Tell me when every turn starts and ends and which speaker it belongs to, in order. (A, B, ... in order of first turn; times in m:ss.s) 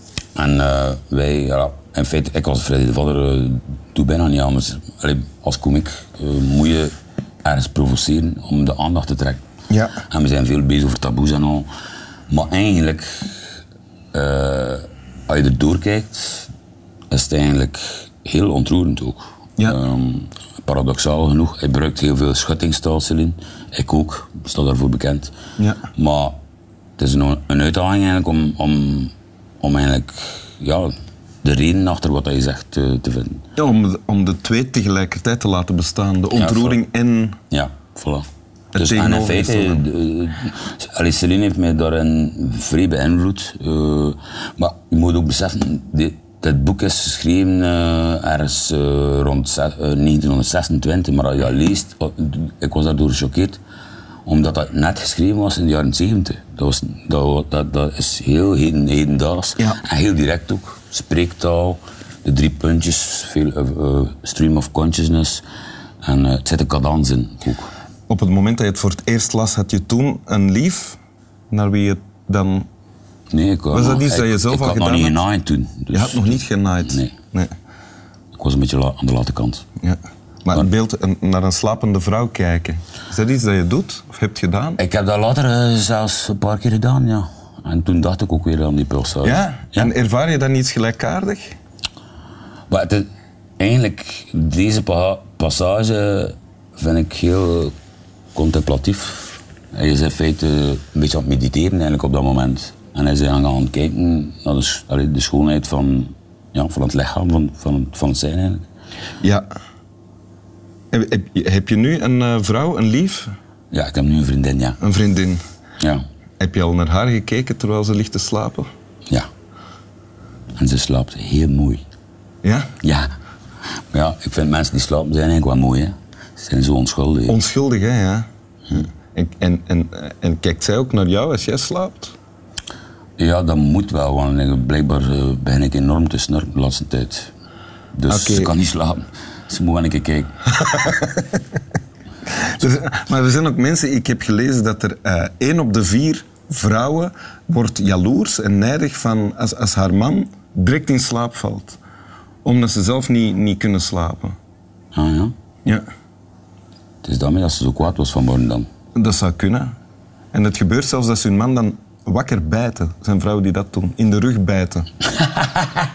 0:00.4-0:06.9 A
0:07.4-0:09.4 A
0:09.7-0:10.0 B
0:10.1-0:11.7 A
0:12.3-0:13.1 A
0:14.1-0:16.5 A
0:17.1-0:25.3 A
0:26.0-0:26.4 A
0:27.0-0:33.4 A
0:33.6-0:37.4 B
0:36.4-0:36.8 A
0:37.5-0:38.3 A
0:38.8-0:39.8 B
0:38.8-0:53.6 A
0:54.3-1:05.4 A
1:06.0-1:07.7 A
1:08.1-1:11.0 B
1:11.5-1:12.7 B
1:13.3-1:17.1 A
1:13.7-1:15.2 B
1:15.9-1:17.5 B
1:18.4-1:19.6 A
1:19.8-1:24.8 B
1:24.8-1:29.9 A
1:29.2-1:31.6 B
1:32.7-1:33.1 A
1:33.6-1:37.7 A
1:38.4-1:48.6 A
1:49.2-1:49.5 B
1:50.9-1:53.3 B
1:53.7-1:54.8 A
1:54.8-1:55.4 B
1:55.8-1:56.0 A
1:56.4-1:58.7 B
2:00.6-2:01.8 A
2:02.8-2:03.1 A
2:03.9-2:07.4 A
2:07.3-2:12.1 B
2:13.2-2:17.3 A
2:17.9-2:20.3 A
2:18.1-2:18.5 B
2:20.7-2:21.2 B
2:22.5-2:31.8 B
2:32.4-2:34.4 B
2:34.9-2:35.3 A
2:37.0-2:38.7 A
2:39.0-2:39.7 B
2:40.3-2:44.9 B
2:45.2-2:45.7 A